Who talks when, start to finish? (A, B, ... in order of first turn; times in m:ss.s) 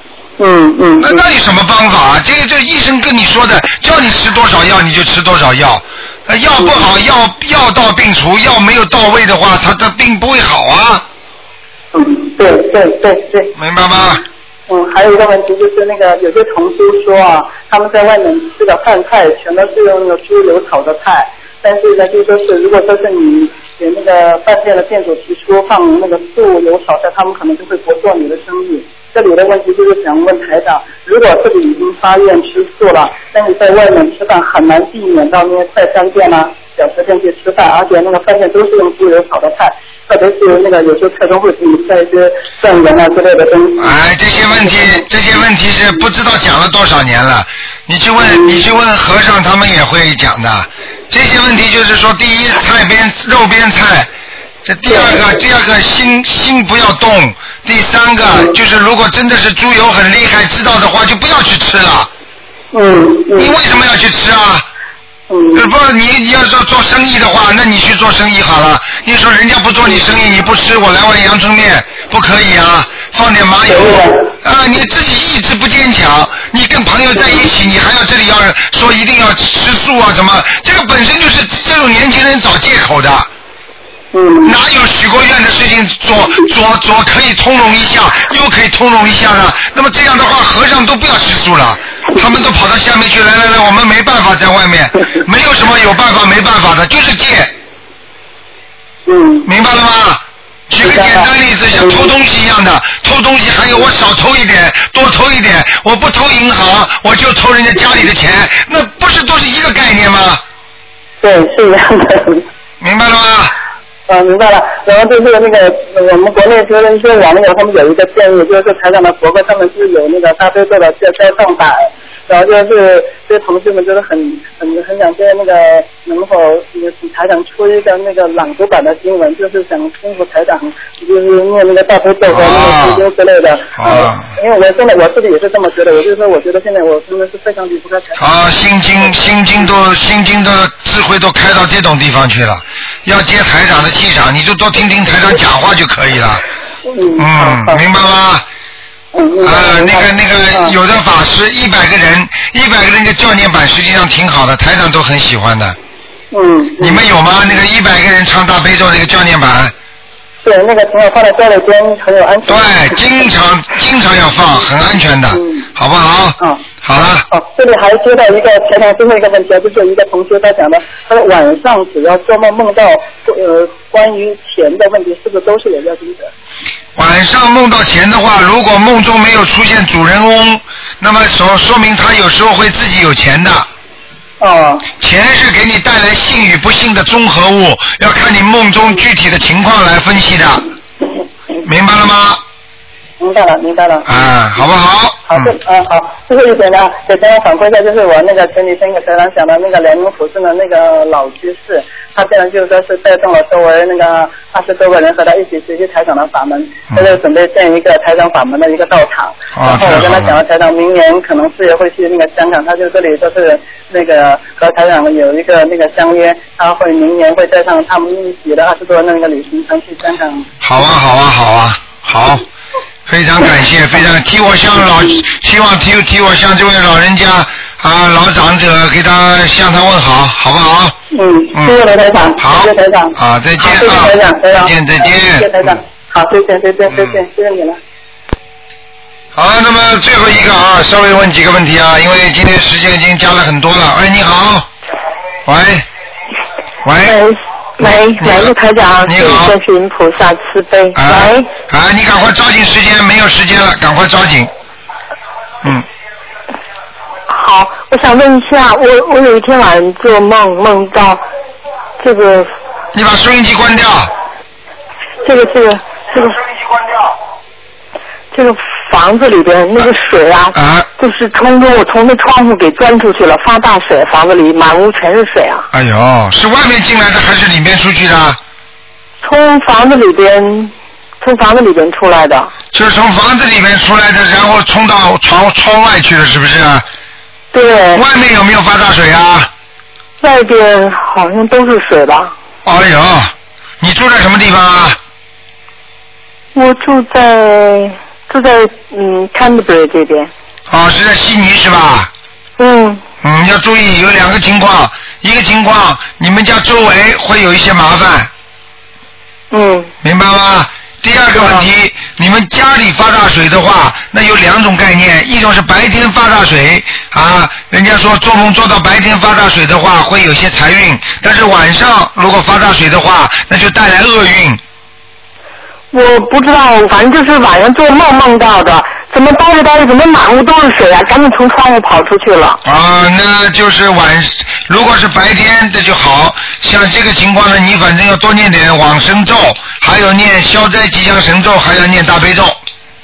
0:00.4-0:01.2 A
0:01.0-0:11.0 B
0:06.6-0:06.9 A
0:11.9-0:13.5 A
0:13.6-0:14.2 B
0:14.7-0:44.0 A
0:43.8-0:54.1 B
0:44.5-0:45.1 A
0:48.2-0:48.6 A
0:54.6-1:02.1 B
0:54.9-0:55.4 A
1:02.7-1:03.6 A
1:03.4-1:04.6 B
1:05.3-1:05.7 A
1:05.6-1:23.3 B
1:13.7-1:14.3 A
1:17.2-1:17.5 A
1:24.1-1:24.6 A
1:24.4-1:37.5 B
1:39.1-1:39.5 A
1:39.5-1:50.4 B
1:40.8-1:42.1 A
1:51.2-1:52.4 A
1:52.8-1:53.5 B
1:54.1-2:19.7 A
2:12.3-2:13.0 B
2:13.8-2:14.3 B
2:18.2-2:26.4 B
2:26.8-2:27.8 A
2:27.2-2:28.4 B
2:29.1-2:30.7 A
2:29.4-2:35.8 B
2:36.3-2:37.1 A
2:36.8-2:39.7 B
2:40.4-2:43.3 A
2:42.5-2:47.2 B
2:45.3-2:45.6 A
2:46.4-2:46.7 A
2:47.3-2:56.3 A
2:57.0-3:03.7 B
3:04.4-3:04.9 A
3:05.0-3:10.6 B
3:11.6-3:12.4 B
3:13.2-3:14.3 A
3:14.1-3:15.5 B
3:15.3-3:40.5 A
3:29.5-3:30.4 B
3:40.6-3:42.4 B
3:43.1-3:50.9 B
3:51.1-3:57.8 A
3:52.4-3:55.5 B
3:59.4-4:04.7 B
4:05.4-4:05.9 B
4:06.8-4:07.2 B
4:07.1-4:11.5 C
4:07.8-4:08.5 B
4:09.0-4:09.6 B
4:10.9-4:14.5 B
4:17.3-4:21.2 C
4:22.0-4:22.5 C
4:22.9-4:24.1 B
4:25.2-4:26.4 C
4:28.3-4:35.7 C
4:30.6-4:30.9 B
4:35.7-4:38.4 B
4:39.2-4:42.5 C
4:42.7-4:46.8 B
4:47.5-4:48.0 C
4:47.9-4:49.5 B
4:50.2-4:52.3 C
4:52.6-4:55.0 B
4:56.6-5:00.3 C
5:00.7-5:02.1 B
5:02.6-5:03.0 C
5:03.2-5:08.3 B
5:09.5-5:09.9 C
5:10.0-5:24.6 B
5:11.4-5:11.6 C
5:25.9-5:32.6 C
5:32.6-5:42.6 B